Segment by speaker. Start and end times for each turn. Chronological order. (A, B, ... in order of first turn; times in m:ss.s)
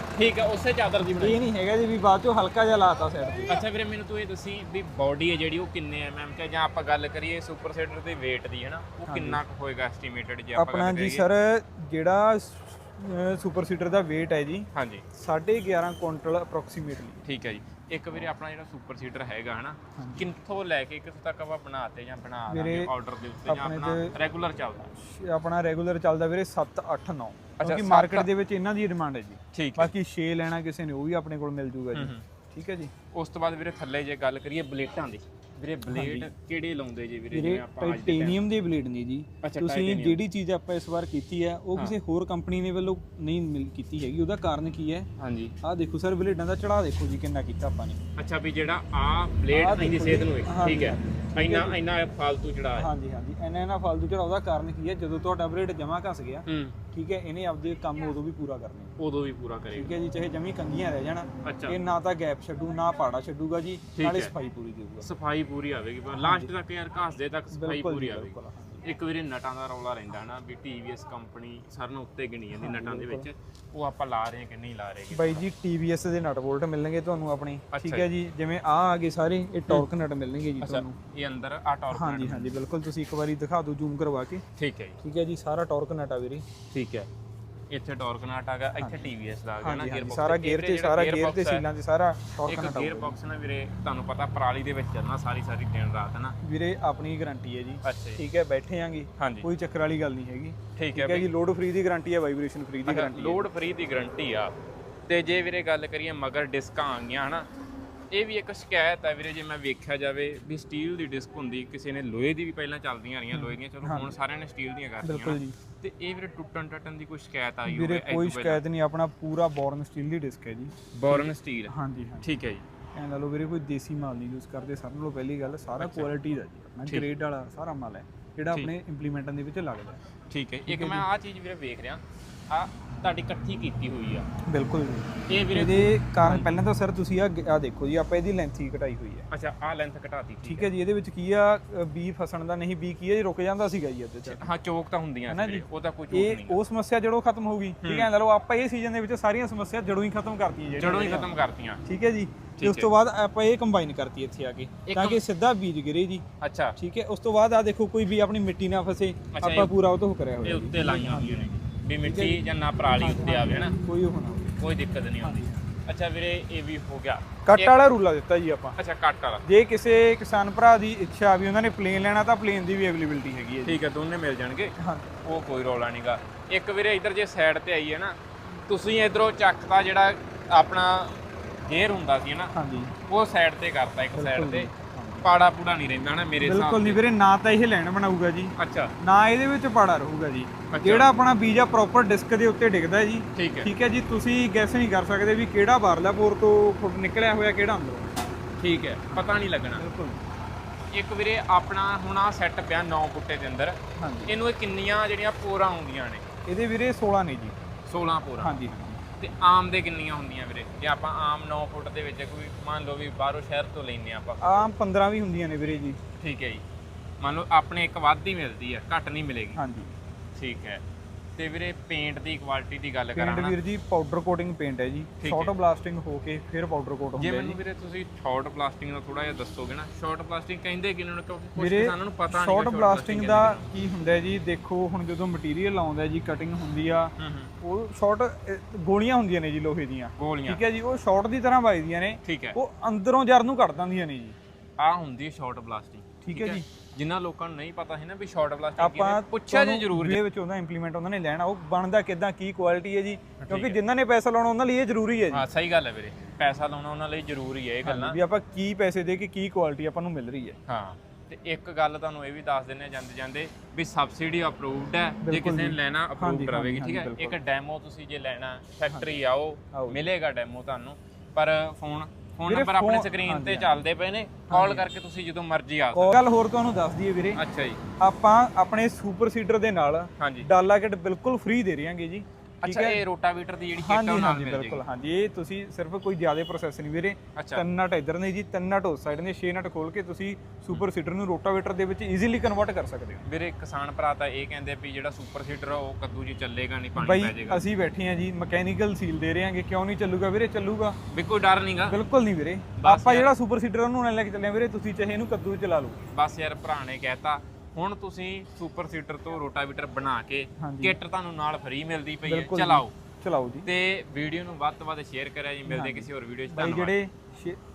0:00.2-0:01.4 A
0:01.2-0:03.6 B
0:03.5-0:11.3 A
0:09.1-0:09.4 B
0:10.6-0:17.2 B
0:14.7-0:15.0 A
0:17.2-0:24.9 A
0:20.0-0:20.3 B
0:22.5-0:22.9 B
0:23.5-0:24.1 B
0:25.0-0:32.9 B
0:27.6-0:28.3 A
0:29.5-0:29.9 A
0:31.9-0:32.2 A
0:33.1-0:38.4 A
0:35.9-0:36.3 B
0:37.3-0:45.1 B
0:39.4-0:40.2 A
0:45.2-0:45.6 A
0:45.6-0:48.0 B
0:48.2-0:52.9 A
0:49.5-0:51.8 B
0:52.8-0:59.0 B
0:56.5-0:56.8 A
0:59.0-0:59.9 A
0:59.8-1:05.1 B
1:01.4-1:01.8 A
1:04.0-1:04.3 A
1:05.0-1:15.5 A
1:06.2-1:06.5 B
1:07.5-1:08.9 B
1:12.5-1:13.3 B
1:15.1-1:21.0 B
1:17.7-1:18.1 A
1:20.6-1:22.6 A
1:21.9-1:24.4 B
1:24.6-1:25.0 A
1:25.0-1:26.4 B
1:26.7-1:27.1 A
1:27.7-1:31.6 A
1:28.8-1:33.2 B
1:32.4-1:36.4 A
1:36.4-1:43.5 B
1:37.8-1:38.2 A
1:39.2-1:39.5 A
1:40.8-1:41.3 A
1:42.9-1:44.5 A
1:45.1-1:47.5 A
1:48.1-1:58.6 A
1:53.3-1:54.1 B
1:55.0-1:55.6 B
1:57.7-2:02.3 B
2:00.9-2:02.7 A
2:03.0-2:10.0 B
2:05.8-2:06.1 A
2:10.3-2:14.3 A
2:10.7-2:11.1 B
2:14.5-2:19.3 B
2:15.3-2:16.5 A
2:19.3-2:20.7 A
2:20.4-2:24.5 B
2:24.3-2:26.6 A
2:25.3-2:31.4 B
2:27.8-2:28.1 A
2:30.8-2:31.8 A
2:31.9-2:36.2 B
2:32.6-2:32.9 A
2:34.9-2:35.2 A
2:36.4-2:36.8 A
2:36.8-2:41.5 B
2:39.3-2:39.7 A
2:40.4-2:43.8 A
2:42.0-2:44.6 B
2:44.6-2:47.8 A
2:45.2-2:45.6 B
2:47.5-2:48.8 B
2:48.8-2:49.4 A
2:49.4-2:53.8 B
2:53.6-3:02.5 A
2:54.8-2:55.1 B
3:02.5-3:03.0 B
3:03.1-3:04.7 A
3:04.2-3:05.3 B
3:05.2-3:07.0 A
3:06.4-3:18.2 B
3:08.6-3:08.9 A
3:10.7-3:11.1 A
3:13.4-3:13.7 A
3:18.6-3:19.8 A
3:19.1-3:20.2 B
3:20.9-3:26.2 A
3:24.0-3:24.4 B
3:26.5-3:27.6 B
3:27.9-3:28.6 A
3:28.4-3:29.0 B
3:29.2-3:34.7 A
3:34.4-3:36.0 B
3:36.2-3:36.6 A
3:37.2-3:39.6 A
3:39.6-3:39.9 B
3:40.4-3:40.8 A
3:41.4-3:43.6 A
3:43.2-3:47.6 B
3:45.2-3:45.5 A
3:47.2-3:53.7 A
3:51.6-4:04.4 B
3:57.2-3:57.5 A
4:00.2-4:00.6 A
4:02.2-4:02.6 A
4:04.8-4:10.2 A
4:06.2-4:06.6 B
4:08.8-4:15.5 B
4:13.4-4:13.8 A
4:15.3-4:18.2 A
4:17.8-4:20.6 B
4:20.7-4:36.2 A
4:25.2-4:27.4 B
4:28.9-4:29.2 B
4:29.7-4:30.0 B
4:32.5-4:33.8 B
4:34.5-4:34.9 B
4:35.9-4:37.4 B
4:37.4-4:37.8 A
4:38.0-4:43.0 B
4:40.2-4:40.5 A
4:42.6-4:44.8 A
4:43.8-4:53.2 B
4:47.4-4:47.6 A
4:53.3-4:57.6 A
4:57.0-5:01.0 B
5:01.1-5:02.0 A
5:01.9-5:06.1 B
5:02.8-5:03.4 A
5:06.1-5:12.9 A
5:10.6-5:11.0 B
5:12.2-5:13.7 B
5:13.6-5:17.0 A
5:15.7-5:17.6 B